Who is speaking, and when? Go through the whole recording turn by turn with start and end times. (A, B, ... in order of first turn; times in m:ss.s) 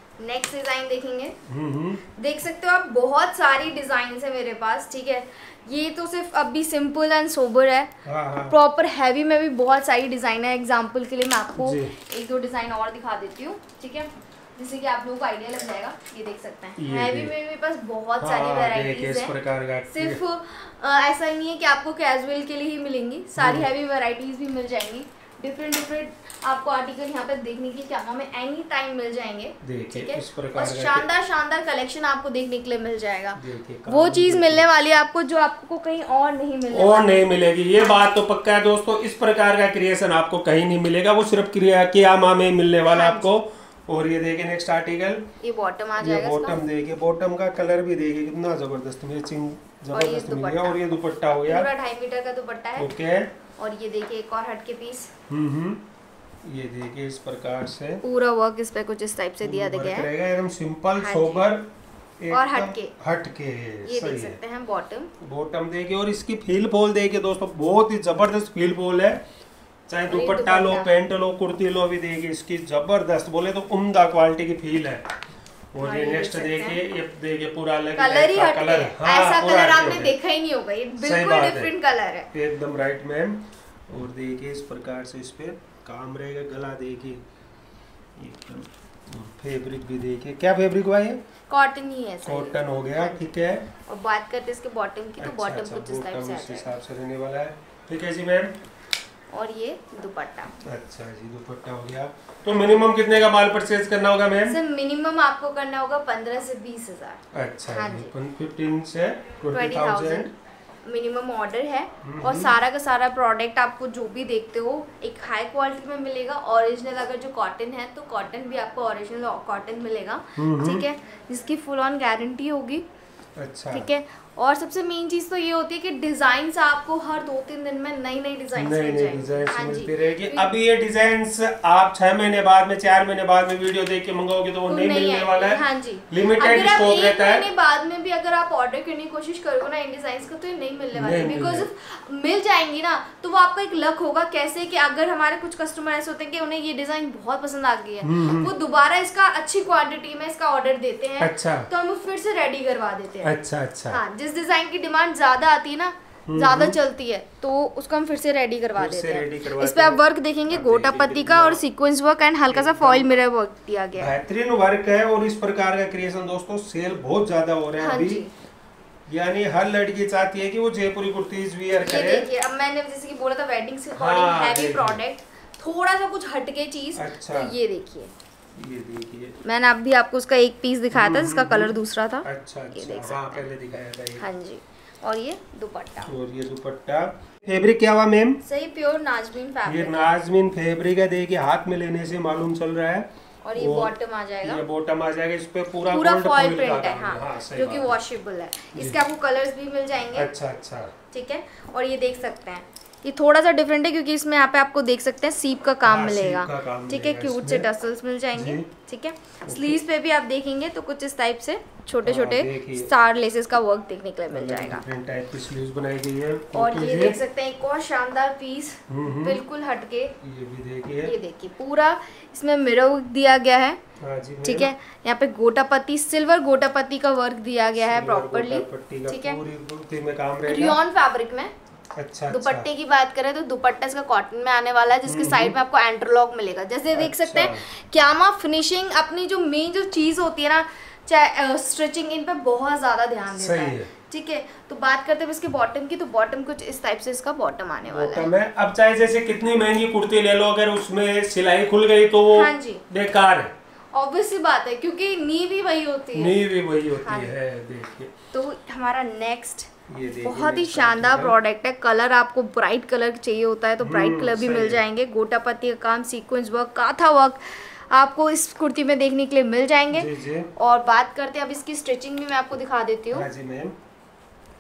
0:00.2-0:01.4 A
0:01.5-0:02.0 B
0:02.2-0:07.9 A
0:08.0-0:08.6 B
0:08.5-0:19.4 A
0:11.6-0:11.9 B
0:16.8-0:17.3 B
0:18.2-0:20.2 B
0:19.9-0:37.2 A
0:23.4-0:23.7 B
0:29.6-0:31.1 B
0:33.4-0:34.7 B
0:36.7-0:45.3 B
0:42.9-0:43.3 A
0:45.4-0:46.6 A
0:46.0-0:51.7 B
0:49.9-0:50.8 A
0:51.5-0:53.0 A
0:52.8-0:53.3 B
0:53.6-0:55.1 A
0:55.3-0:55.8 B
0:56.4-0:58.0 B
0:58.0-1:00.1 A
0:59.4-1:04.4 B
1:00.9-1:01.4 A
1:02.3-1:02.9 A
1:03.8-1:05.1 A
1:05.2-1:09.2 B
1:09.9-1:15.1 B
1:10.1-1:10.9 A
1:15.7-1:20.2 B
1:15.8-1:16.8 A
1:18.0-1:22.3 A
1:21.0-1:21.7 B
1:22.3-1:27.2 B
1:28.2-1:31.2 B
1:31.5-1:33.3 A
1:32.3-1:33.7 B
1:33.9-1:36.7 A
1:35.2-1:38.6 B
1:39.3-1:40.6 A
1:40.6-1:44.6 B
1:44.5-1:48.1 A
1:47.3-1:50.3 B
1:49.5-1:50.3 A
1:50.8-2:02.8 A
1:52.0-1:52.6 B
2:00.4-2:00.9 B
2:03.4-2:03.9 B
2:03.7-2:10.5 A
2:08.6-2:17.5 B
2:14.7-2:33.3 A
2:21.0-2:21.7 B
2:28.0-2:28.5 B
2:31.2-2:31.7 B
2:33.2-2:34.0 B
2:33.9-2:44.1 A
2:36.3-2:36.8 B
2:38.8-2:41.6 B
2:42.5-2:43.2 B
2:44.0-2:48.2 B
2:47.8-2:48.3 A
2:49.1-2:52.3 B
2:51.8-2:58.1 A
2:54.0-2:55.0 B
2:57.0-2:57.6 B
2:58.6-2:59.4 B
2:59.4-3:03.5 A
3:00.9-3:04.3 B
3:04.2-3:06.1 A
3:06.1-3:08.4 B
3:08.4-3:10.1 A
3:09.6-3:18.0 B
3:13.4-3:14.6 A
3:15.9-3:20.3 A
3:20.1-3:20.9 B
3:21.1-3:34.8 A
3:25.8-3:27.7 B
3:28.3-3:28.7 B
3:29.5-3:29.8 B
3:32.0-3:32.9 B
3:34.3-3:37.2 B
3:36.5-3:40.2 A
3:38.9-3:39.4 B
3:40.2-3:41.1 B
3:41.0-3:43.8 A
3:44.0-3:44.7 B
3:44.4-3:49.4 A
3:47.8-3:50.8 B
3:50.5-3:51.5 A
3:52.0-3:52.7 B
3:52.3-4:08.3 A
3:55.0-3:55.6 B
3:56.9-3:57.6 B
4:03.3-4:03.9 B
4:07.9-4:13.5 B
4:12.3-4:12.8 A
4:13.9-4:16.4 A
4:16.1-4:18.1 B
4:17.0-4:17.3 A
4:18.3-4:19.7 A
4:19.9-4:21.4 B
4:20.2-4:33.3 A
4:23.8-4:24.8 B
4:29.9-4:30.5 B
4:33.1-4:33.8 B